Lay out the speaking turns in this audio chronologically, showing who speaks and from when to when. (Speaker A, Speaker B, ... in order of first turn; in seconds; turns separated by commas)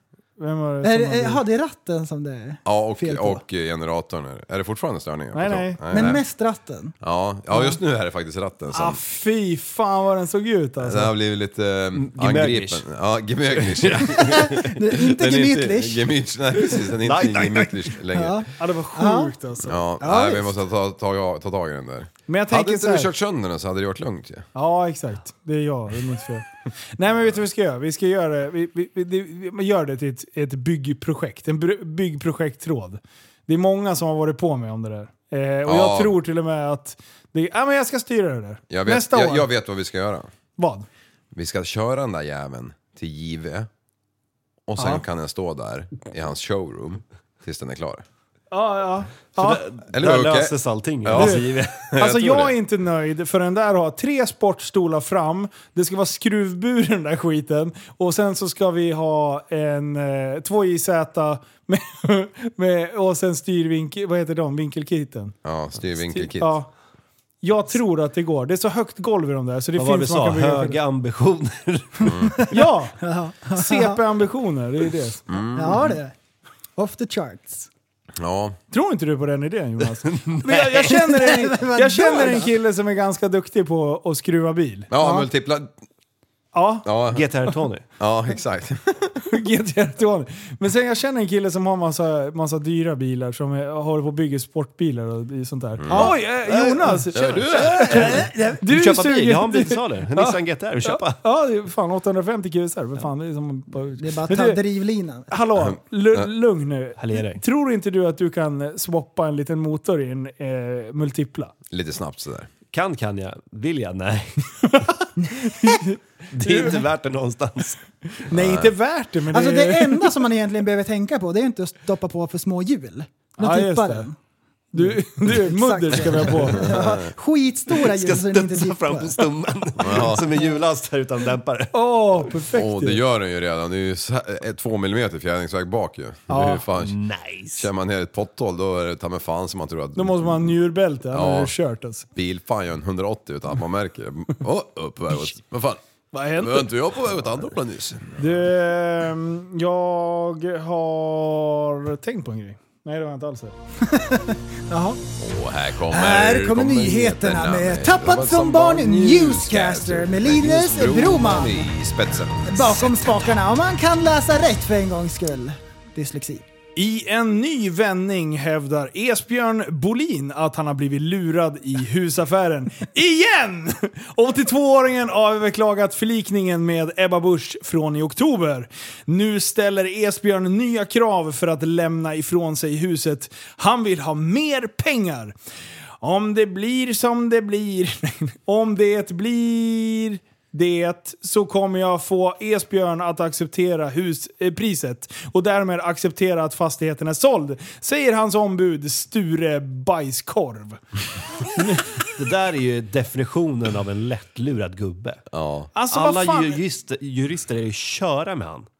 Speaker A: 0.4-1.4, Speaker B: 0.8-3.4, Speaker C: 2.6-6.2, Speaker A: 5.3-6.1, Speaker B: 5.9-6.9, Speaker C: 7.0-9.0, Speaker A: 8.7-11.1, Speaker C: 10.8-18.4, Speaker D: 11.9-12.8, Speaker D: 13.5-14.7, Speaker B: 14.2-16.1, Speaker D: 17.0-17.7, Speaker B: 18.1-19.3, Speaker A: 18.5-19.8, Speaker C: 19.6-24.5, Speaker B: 20.0-20.5, Speaker A: 22.3-23.1, Speaker A: 24.5-39.5, Speaker C: 35.6-36.1, Speaker C: 38.7-40.3, Speaker A: 40.6-40.9, Speaker C: 41.3-43.7, Speaker C: 44.7-48.0, Speaker A: 48.5-49.6, Speaker D: 49.3-52.5, Speaker C: 49.9-51.4, Speaker A: 51.1-65.4, Speaker C: 51.9-52.5, Speaker C: 65.4-66.5, Speaker A: 66.1-66.7, Speaker A: 67.4-70.8, Speaker D: 69.8-72.1, Speaker B: 72.3-74.0, Speaker A: 72.5-75.2, Speaker C: 75.3-76.0, Speaker B: 75.5-76.1, Speaker B: 76.8-77.7, Speaker C: 78.2-78.6, Speaker A: 78.7-84.9, Speaker D: 80.1-80.9, Speaker B: 80.8-82.5, Speaker C: 84.9-85.7, Speaker B: 85.0-85.3, Speaker A: 86.5-86.9, Speaker C: 86.8-87.2, Speaker D: 87.1-87.8, Speaker C: 88.0-89.4, Speaker A: 89.3-104.6, Speaker C: 95.8-96.2, Speaker B: 95.9-96.1, Speaker D: 96.5-97.0, Speaker C: 97.1-98.2, Speaker D: 97.6-101.2, Speaker B: 104.0-105.3, Speaker A: 105.3-111.5, Speaker C: 105.6-106.3, Speaker D: 107.0-107.4, Speaker C: 111.7-112.5, Speaker D: 112.7-114.5, Speaker B: 115.2-115.7, Speaker A: 115.4-116.8, Speaker D: 116.3-117.9, Speaker A: 118.3-120.2, Speaker C: 118.3-118.7, Speaker B: 119.3-124.1, Speaker A: 123.4-124.1, Speaker A: 124.7-126.7, Speaker B: 124.8-129.3, Speaker C: 126.6-127.0, Speaker D: 127.8-131.7, Speaker C: 129.8-130.3, Speaker A: 131.7-133.0, Speaker C: 132.5-136.9, Speaker A: 136.3-136.7, Speaker D: 136.7-137.7, Speaker C: 137.6-140.5, Speaker A: 139.9-142.1, Speaker C: 141.1-141.5, Speaker C: 142.1-145.8, Speaker A: 146.1-146.7, Speaker C: 146.3-148.2, Speaker A: 148.2-153.6, Speaker B: 153.9-155.0, Speaker C: 155.2-162.9, Speaker B: 155.9-161.7, Speaker B: 162.4-166.4, Speaker A: 166.8-185.3, Speaker A: 186.0-200.8, Speaker D: 202.1-205.2, Speaker C: 205.3-205.7, Speaker A: 205.7-206.6, Speaker D: 205.9-208.7